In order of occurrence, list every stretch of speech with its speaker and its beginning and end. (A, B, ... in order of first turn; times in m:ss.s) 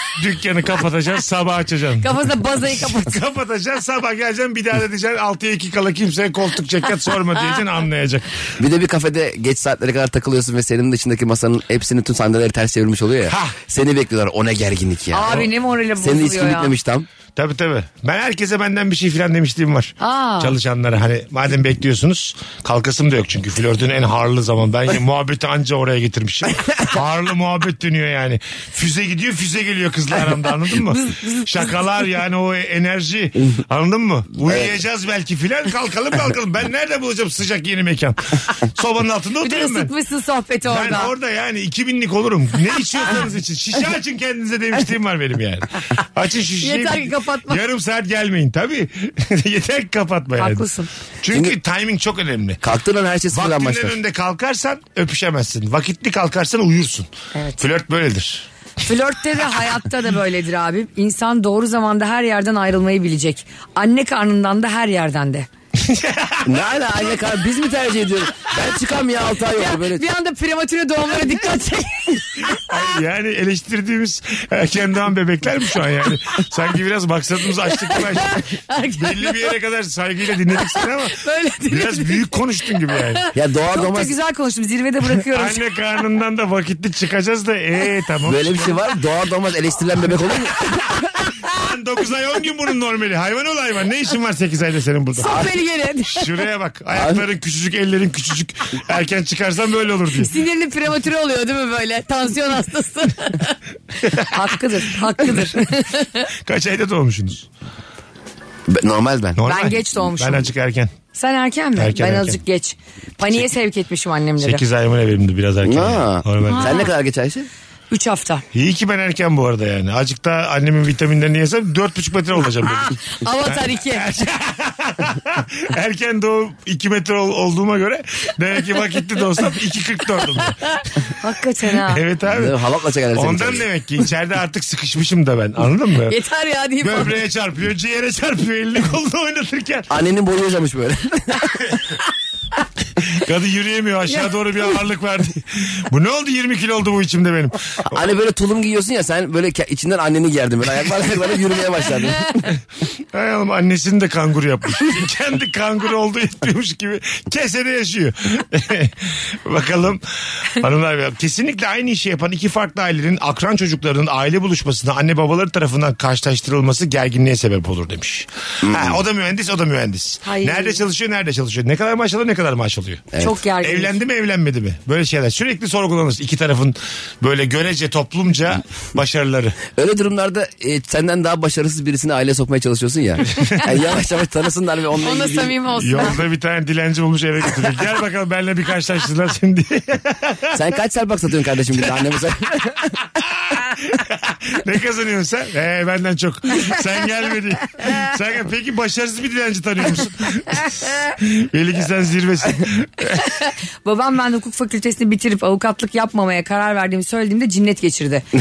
0:00.1-0:08.5 A
0:02.0-0:03.2 B
0:08.6-0:15.4 C
0:13.3-0:13.6 A
0:15.1-0:16.7 B
0:16.0-0:17.1 C
0:17.4-0:39.9 A
0:20.0-0:20.6 B
0:30.9-0:31.7 B
0:39.4-0:41.1 B
0:40.7-0:50.7 A
0:46.6-0:47.6 B
0:50.4-0:50.9 B
0:51.2-0:52.6 A
0:52.6-0:54.0 C
0:53.3-0:57.1 A
0:57.3-0:57.6 B
0:57.6-0:58.5 A
0:58.8-1:05.5 B
1:05.8-1:06.6 A
1:06.4-1:10.0 C
1:09.5-1:12.6 B
1:12.4-1:18.4 A
1:17.8-1:19.5 B
1:19.0-1:23.2 A
1:20.6-1:25.6 B
1:23.3-1:24.1 C
1:25.3-1:28.8 A
1:28.2-1:30.6 C
1:30.7-1:31.5 B
1:31.4-1:35.5 A
1:35.2-1:36.3 B
1:36.1-1:40.3 A
1:36.9-1:37.2 C
1:40.2-1:43.6 B
1:44.0-1:44.4 A
1:44.1-1:46.3 B
1:46.4-1:47.5 A
1:48.7-1:49.4 C
1:49.4-1:50.9 A
1:49.4-1:50.5 B
1:51.1-1:54.6 B
1:51.8-1:52.4 A
1:54.4-1:56.8 A
1:55.6-1:57.5 C
1:56.4-1:56.9 B
1:57.9-1:58.4 B
1:58.5-2:10.7 A
2:02.7-2:04.1 B
2:11.1-2:12.0 B
2:11.8-2:12.6 A
2:12.3-2:13.6 C
2:13.1-2:16.2 A
2:16.1-2:17.2 B
2:16.8-2:19.9 A
2:19.9-2:21.6 C
2:23.0-2:27.9 A
2:27.8-2:32.5 C
2:33.1-2:59.6 A
2:48.6-2:49.0 C
2:50.2-2:50.8 B
2:53.2-2:53.9 B
2:59.7-3:05.6 C
3:03.4-3:03.6 A
3:05.0-3:06.2 B
3:05.8-3:10.6 A
3:10.5-3:13.0 C
3:13.2-3:23.3 A
3:23.2-3:28.2 B